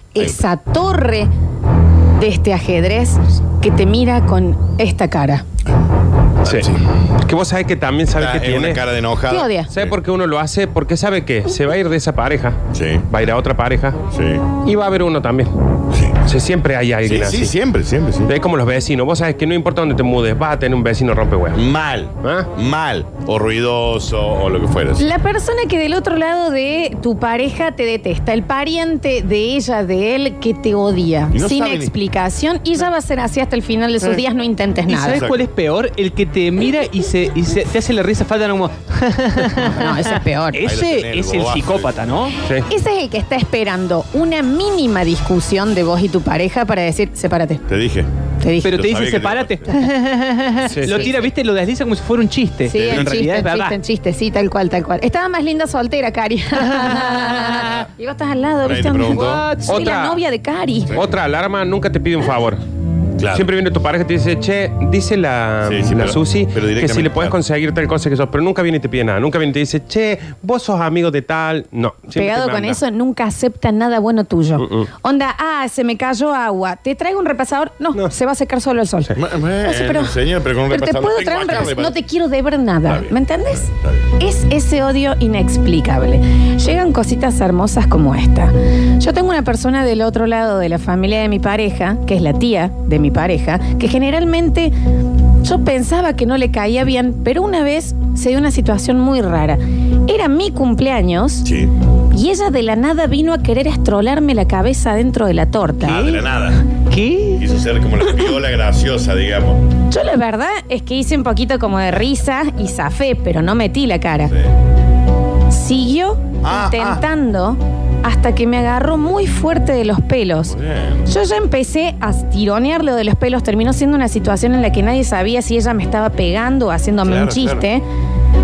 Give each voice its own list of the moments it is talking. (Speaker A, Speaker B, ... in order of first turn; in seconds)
Speaker A: 0.1-1.3, 2.2-5.4, 9.3-9.7, 25.0-35.2, 39.6-40.6, 42.7-47.6, 48.4-48.8, 52.7-60.9, 72.1-80.1, 80.7-94.7, 95.4-101.5, 102.1-106.2, 109.9-114.3, 115.5-120.5, 121.1-127.8
Speaker B: 6.4-6.8, 8.2-9.9, 12.7-13.1, 14.1-14.4, 17.1-18.3, 21.6-25.1, 31.3-31.9, 35.1-35.4, 40.6-42.1, 47.7-48.1, 48.7-49.8, 52.9-53.2, 58.6-59.5, 63.2-63.5, 65.7-67.4, 79.2-82.0, 82.9-84.0, 101.4-101.7, 105.8-106.6, 107.4-109.6, 116.4-117.0, 120.5-121.1, 127.0-127.6
Speaker C: 6.5-6.7, 7.2-8.8, 9.7-14.0, 14.6-15.5, 16.2-17.5, 18.3-21.6, 22.2-22.5, 50.6-51.1, 59.7-60.2, 60.9-62.6, 63.3-72.8, 74.6-74.9
Speaker D: 34.9-42.4, 48.6-53.8, 56.7-57.8, 59.1-59.8, 106.9-107.4